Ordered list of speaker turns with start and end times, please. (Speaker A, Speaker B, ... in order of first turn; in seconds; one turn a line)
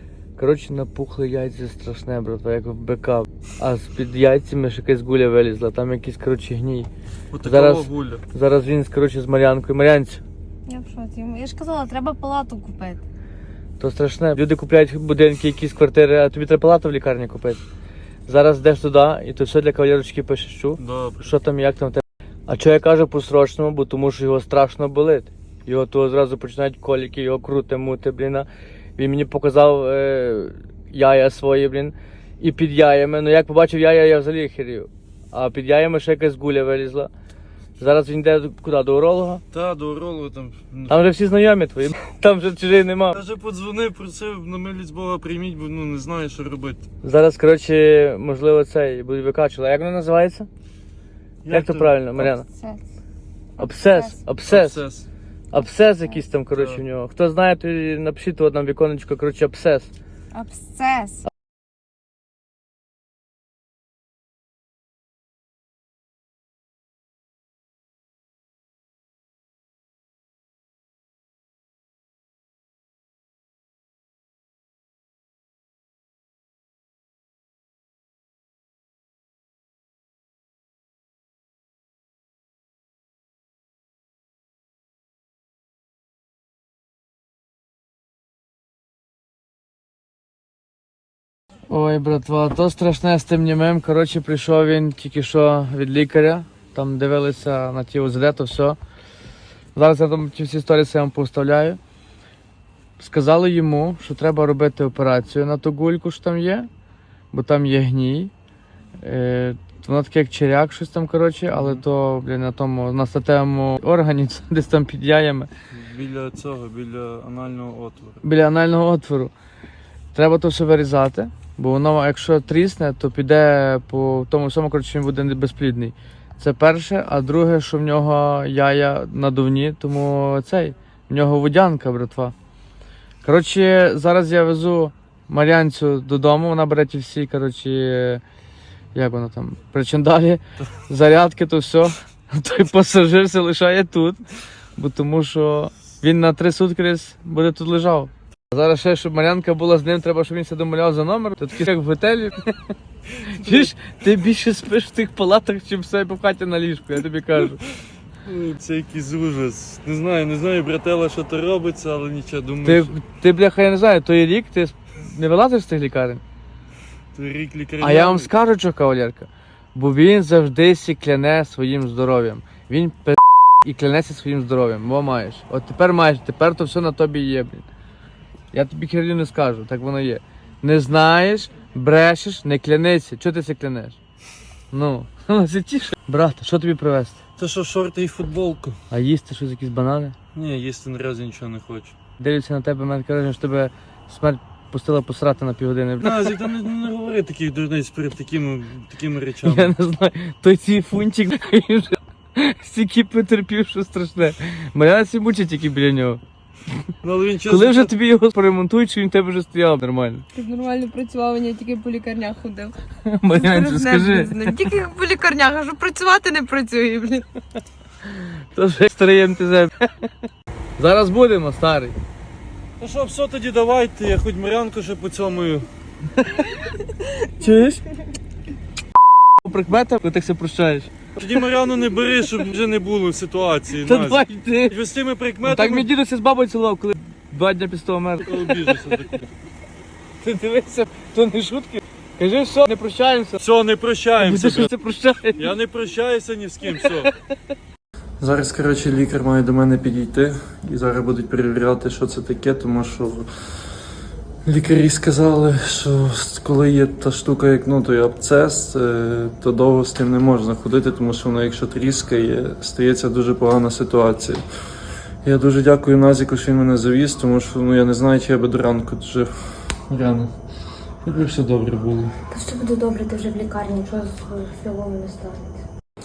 Speaker A: 0.4-6.9
Speaker B: 7.3-8.2
Speaker A: 7.4-10.2
Speaker C: 10.7-13.0
Speaker A: 13.8-17.6
Speaker A: 18.3-37.1
Speaker B: 20.8-21.3
Speaker A: 37.8-39.4
Speaker B: 39.5-41.1
Speaker A: 40.9-43.2
Speaker B: 43.1-46.8
Speaker A: 47.0-50.5
Speaker B: 51.4-52.2
Speaker A: 51.5-52.5
Speaker C: 53.6-54.2
Speaker A: 53.6-54.8
Speaker B: 54.5-55.1
Speaker A: 55.5-59.9
Speaker B: 56.5-56.8
Speaker C: 60.3-61.2
Speaker A: 91.7-98.8
Speaker A: 99.8-101.8
Speaker A: 103.0-106.7
Speaker A: 107.3-108.3
Speaker A: 109.0-115.5
Speaker B: 111.5-111.8
Speaker B: 115.7-118.2
Speaker A: 118.2-119.3
Speaker A: 120.1-132.3
Speaker A: 133.2-138.2
Speaker A: 138.9-144.2
Speaker A: 144.8-157.6
Speaker B: 153.3-153.7
Speaker B: 158.2-162.9
Speaker A: 162.6-166.2
Speaker B: 167.1-168.3
Speaker A: 167.8-177.7
Speaker A: 178.5-184.0
Speaker A: 184.7-187.2
Speaker B: 187.4-188.8
Speaker A: 188.9-190.2
Speaker B: 190.3-191.9
Speaker A: 192.2-196.4
Speaker B: 196.0-199.7
Speaker A: 199.4-206.2
Speaker B: 207.0-207.9
Speaker A: 207.4-210.2
Speaker C: 210.3-212.7
Speaker A: 213.1-214.6
Speaker C: 213.3-217.3
Speaker A: 218.5-220.1
Speaker A: 220.8-221.9
Speaker B: 222.8-225.7
Speaker A: 226.2-226.7
Speaker A: 227.4-227.8
Speaker A: 229.4-230.9
Speaker B: 231.2-235.9
Speaker A: 233.8-234.8
Speaker A: 235.4-239.1
Speaker B: 238.2-239.3
Speaker A: 240.2-243.4
Speaker B: 243.4-244.7
Speaker A: 244.2-245.6
Speaker B: 245.3-247.1
Speaker A: 246.7-247.2
Speaker B: 248.2-253.7
Speaker B: 254.4-264.4
Speaker B: 265.2-270.3
Speaker B: 271.0-272.1
Speaker D: 272.3-275.6